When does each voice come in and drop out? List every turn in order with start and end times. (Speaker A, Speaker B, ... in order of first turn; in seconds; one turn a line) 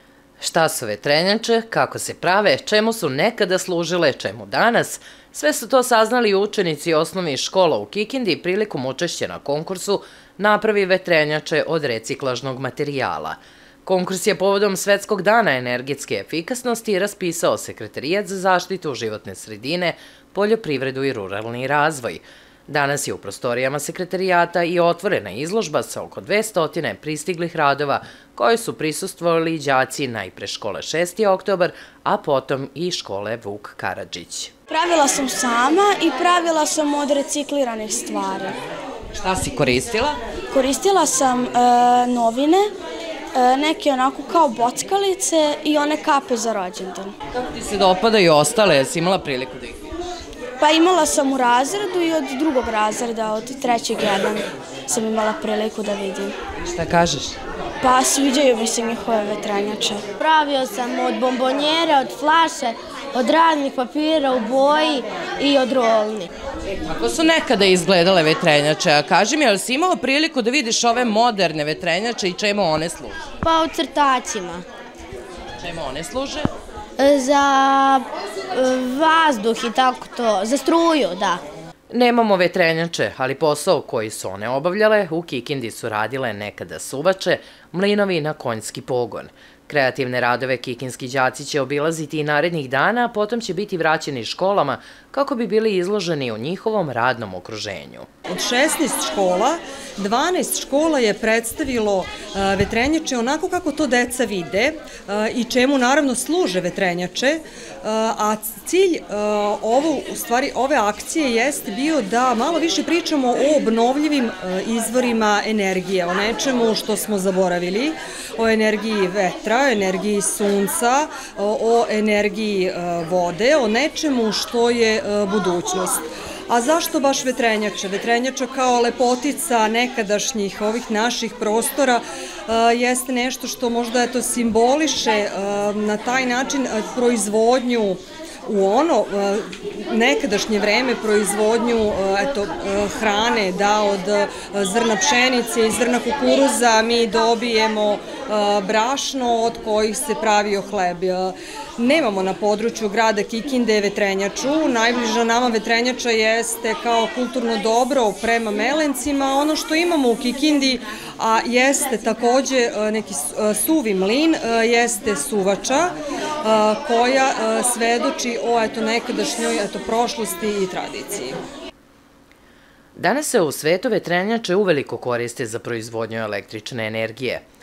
Speaker A: 0.4-34.5
Speaker B: 34.7-38.5
Speaker A: 39.2-40.2
Speaker B: 40.6-42.6
Speaker B: 43.5-47.0
Speaker A: 47.3-49.9
Speaker B: 50.7-54.2
Speaker B: 55.0-56.3
Speaker A: 56.6-57.4
Speaker B: 57.9-60.0
Speaker C: 60.2-66.3
Speaker A: 66.9-73.2
Speaker C: 73.4-74.6
Speaker A: 75.6-76.5
Speaker C: 77.0-81.4
Speaker A: 81.9-98.1
Speaker D: 98.3-171.4
Speaker A: 173.0-177.4